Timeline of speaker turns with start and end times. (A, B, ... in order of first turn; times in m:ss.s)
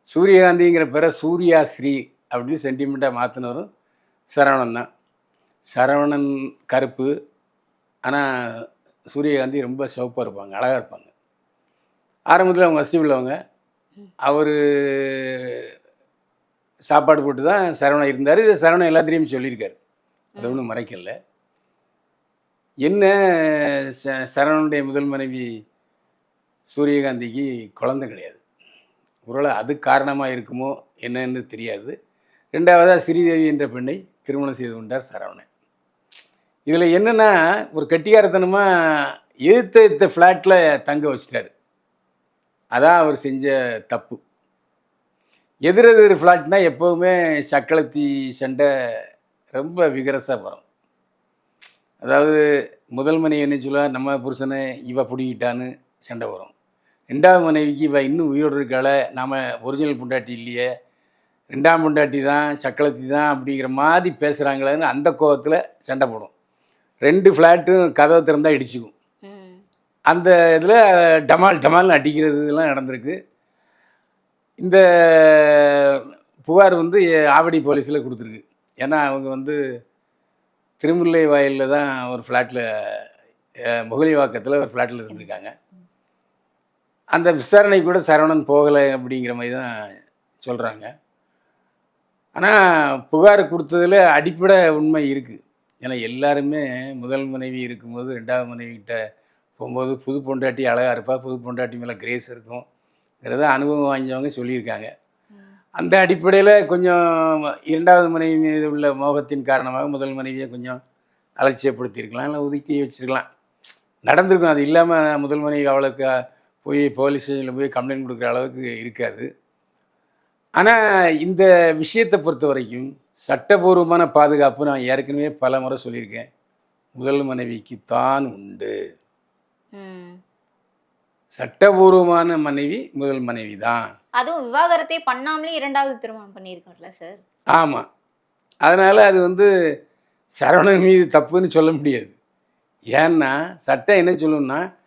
0:00.1-0:03.7 A
0:04.3-0:04.9 A
0:05.7-0:07.1 A
0:08.0-0:11.1 A
0:12.3-0:13.4 A
0:14.2-0:15.7 A
0:16.9-0:19.8 A
0:20.4-0:20.6 B
0:20.4-0:21.1 A
0:22.8-0:25.5 A
0:26.7-0:28.4 A
0:29.2-0:31.9 A
0:32.5-0:35.5 A
0:36.7-0:41.5 A
0:42.7-0:44.2 A
0:45.7-0:48.7 A
0:49.5-0:50.6 A
0:52.0-0:52.4 A
0:52.9-0:56.5 A
0:57.1-1:00.7 A
1:01.5-1:06.3 A
1:07.0-1:08.9 A
1:09.2-1:09.6 B
1:10.1-1:13.2 A
1:14.6-1:19.6 A
1:20.8-1:23.1 A
1:23.9-1:25.5 A
1:27.1-1:29.7 A
1:30.4-1:30.9 A
1:32.4-1:39.0 A
1:39.6-1:42.6 A
1:43.2-1:44.9 A
1:45.3-1:45.6 B
1:45.8-1:50.8 A
1:51.4-1:53.2 A
1:54.0-1:56.1 A
1:56.6-1:59.3 A
2:00.6-2:06.3 A
2:07.0-2:08.7 A
2:09.7-2:10.2 B
2:11.3-2:13.8 A
2:14.2-2:17.2 B
2:17.5-2:17.8 A
2:18.6-2:19.5 A
2:20.4-2:22.1 A
2:22.9-2:24.6 A